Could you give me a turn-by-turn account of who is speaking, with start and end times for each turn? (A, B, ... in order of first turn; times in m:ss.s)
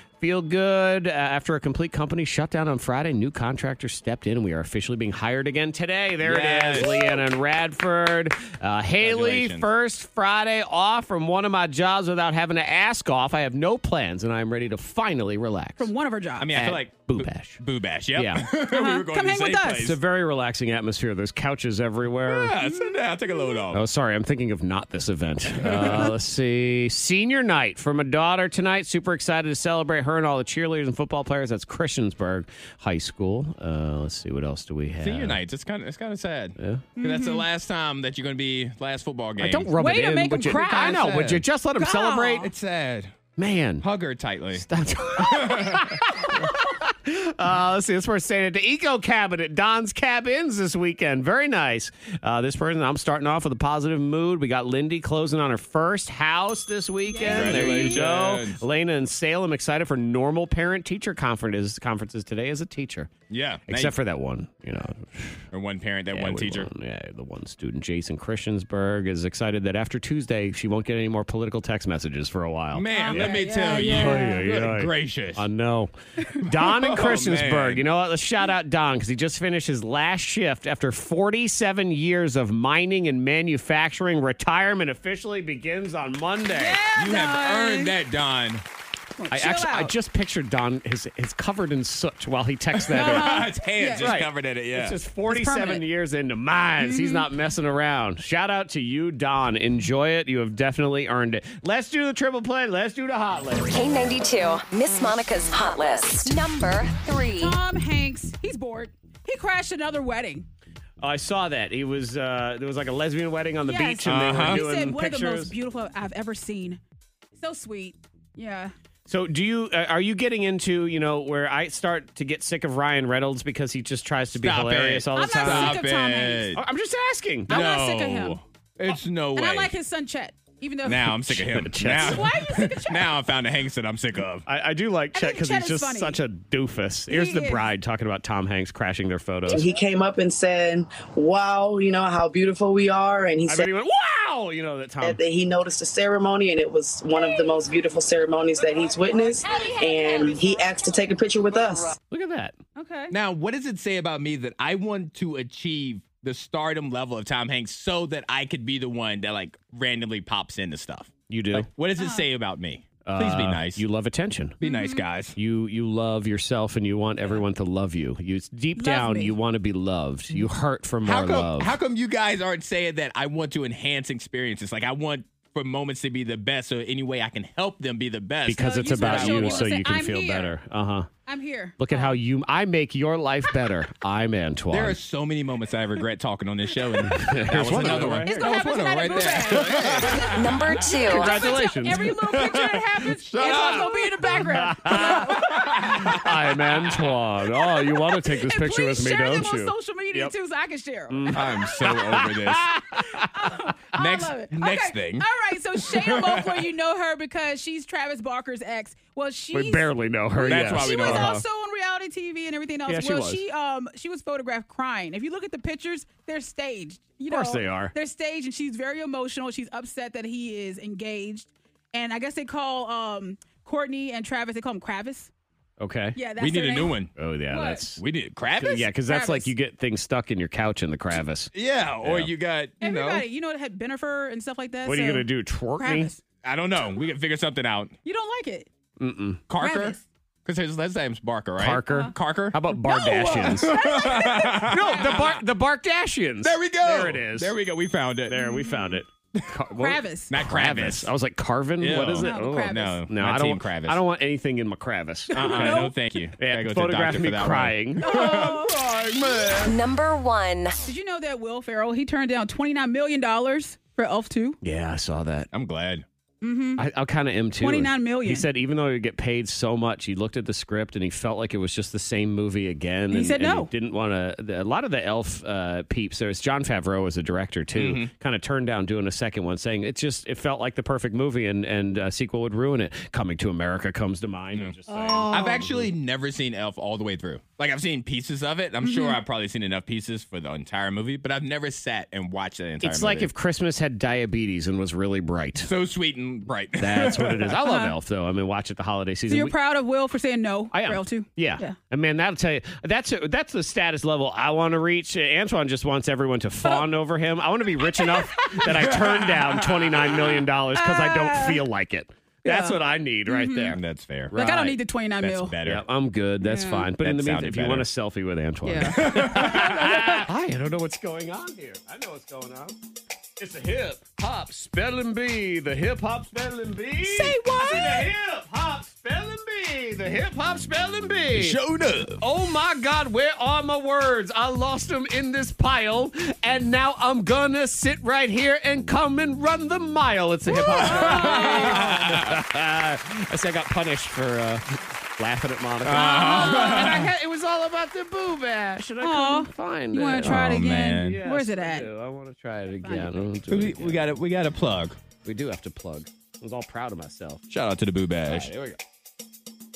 0:00.2-0:15.9 A
0:06.2-0:07.2 B
0:09.0-0:09.7 B
0:15.8-0:16.5 C
0:16.4-0:20.0 B
0:16.5-0:17.6 A
0:18.1-0:18.5 A
0:18.7-0:19.9 C
0:19.8-0:22.6 A
0:22.2-0:23.8 B
0:22.6-0:23.6 C
0:23.7-0:35.4 A
0:25.6-0:26.1 B
0:35.0-0:39.7 B
0:36.6-0:36.9 A
0:37.0-0:37.4 C
0:39.4-0:42.5 A
0:39.5-0:41.2 C
0:40.5-0:41.4 B
0:41.8-0:42.5 C
0:42.4-0:43.2 B
0:43.4-0:43.8 A
0:43.8-0:46.0 B
0:44.5-1:03.1 A
0:57.0-0:58.0 C
0:57.2-0:58.6 B
1:03.3-1:03.9 B
1:03.7-1:05.4 A
1:05.5-1:06.7 B
1:06.1-1:26.8 A
1:12.7-1:15.4 B
1:12.9-1:14.4 C
1:16.4-1:17.8 B
1:26.5-1:28.0 C
1:26.9-1:28.6 B
1:29.2-1:29.9 C
1:29.3-1:43.7 A
1:32.8-1:35.0 B
1:32.9-1:34.1 C
1:35.3-1:35.8 C
1:36.8-1:37.3 C
1:43.7-1:47.6 D
1:47.4-1:50.5 C
1:51.0-1:55.5 A
1:53.6-1:56.8 C
1:54.0-1:54.6 B
1:57.4-1:58.7 C
1:59.1-2:05.8 A
2:04.4-2:06.6 B
2:05.1-2:06.5 C
2:06.5-2:07.6 A
2:07.5-2:09.7 B
2:07.5-2:08.4 C
2:09.3-2:11.2 C
2:10.8-2:14.5 B
2:11.2-2:12.3 A
2:11.9-2:13.1 C
2:14.5-2:19.6 A
2:15.1-2:16.2 C
2:17.1-2:17.6 C
2:19.5-2:23.7 E
2:23.5-2:25.2 A
2:25.0-2:31.9 E
2:29.3-2:30.7 D
2:32.1-2:32.6 A
2:32.8-2:33.1 C
2:33.1-2:43.8 B
2:41.3-2:41.7 A
2:42.0-2:42.2 C
2:43.0-2:44.6 A
2:44.6-2:45.4 B
2:44.6-2:45.0 C
2:45.4-2:51.7 A
2:48.8-2:49.4 C
2:51.0-2:59.8 B
2:58.4-3:01.1 A
2:58.6-3:00.5 C
3:01.3-3:02.2 C
3:01.8-3:05.0 A
3:04.7-3:10.7 B
3:07.1-3:08.5 A
3:08.2-3:16.1 C
3:09.1-3:10.3 A
3:10.3-3:11.5 D
3:11.0-3:12.4 A
3:12.2-3:16.4 B
3:14.3-3:20.3 A
3:17.6-3:21.6 C
3:21.1-3:23.3 A
3:21.3-3:22.7 B
3:23.2-3:45.3 C
3:23.9-3:26.7 B
3:29.5-3:31.4 A
3:30.4-3:31.4 B
3:32.9-3:33.4 A
3:37.3-3:37.9 A
3:45.8-3:46.2 A
3:46.2-3:47.0 C
3:46.4-3:47.1 B
3:47.2-3:48.0 A
3:47.5-3:47.8 C
3:48.0-3:48.9 B
3:48.6-3:51.5 A
3:49.0-3:49.5 C
3:51.5-3:53.2 B
3:52.0-3:52.3 A
3:52.8-3:55.3 C
3:54.8-3:56.1 A
3:55.8-3:56.2 C
3:56.4-3:57.9 B
3:58.0-3:58.7 C
3:59.0-3:59.4 A
3:59.5-4:05.4 B
3:59.6-4:00.0 C
4:01.6-4:03.7 A
4:01.9-4:02.1 C
4:02.8-4:05.3 C
4:04.6-4:07.5 A
4:06.4-4:08.4 B
4:08.3-4:15.8 A
4:08.4-4:09.0 C
4:09.7-4:10.3 C
4:10.3-4:11.1 B
4:11.8-4:14.0 B
4:12.2-4:13.0 C
4:15.3-4:15.9 C
4:15.3-4:19.5 B
4:16.4-4:19.6 A
4:18.0-4:18.8 C
4:19.6-4:20.8 D
4:20.8-4:24.6 C
4:24.6-4:25.5 A
4:25.5-4:26.0 B
4:26.4-4:26.8 C
4:26.8-4:45.9 A
4:27.6-4:28.4 C
4:33.1-4:33.7 C
4:37.7-4:38.1 B
4:44.9-4:45.6 C
4:45.3-4:53.3 B
4:48.8-4:49.2 C
4:52.8-4:55.7 A
4:55.6-4:57.6 B
4:56.8-4:59.5 A
4:57.6-4:57.9 C
4:59.3-5:01.8 C
5:00.7-5:13.8 A
5:07.9-5:09.0 C
5:09.0-5:09.7 B
5:10.7-5:11.6 C
5:12.4-5:13.8 C
5:13.7-5:14.4 B
5:14.3-5:14.8 A
5:14.3-5:15.5 C
5:15.2-5:15.8 B
5:15.6-5:22.8 A
5:16.4-5:16.9 C
5:17.0-5:17.9 B
5:18.6-5:20.2 C
5:18.9-5:20.2 B
5:23.4-5:31.6 A
5:27.0-5:28.1 C
5:31.3-5:32.2 B
5:32.2-5:44.6 A
5:40.5-5:41.9 C
5:40.7-5:42.4 B
5:45.2-5:54.0 A
5:45.8-5:47.1 B
5:45.9-5:47.0 C
5:49.0-5:51.9 C
5:50.2-5:51.2 B
5:52.8-5:53.2 C
5:53.5-5:55.0 B
5:55.2-5:57.4 A
5:57.5-5:58.5 B
5:58.2-5:58.8 A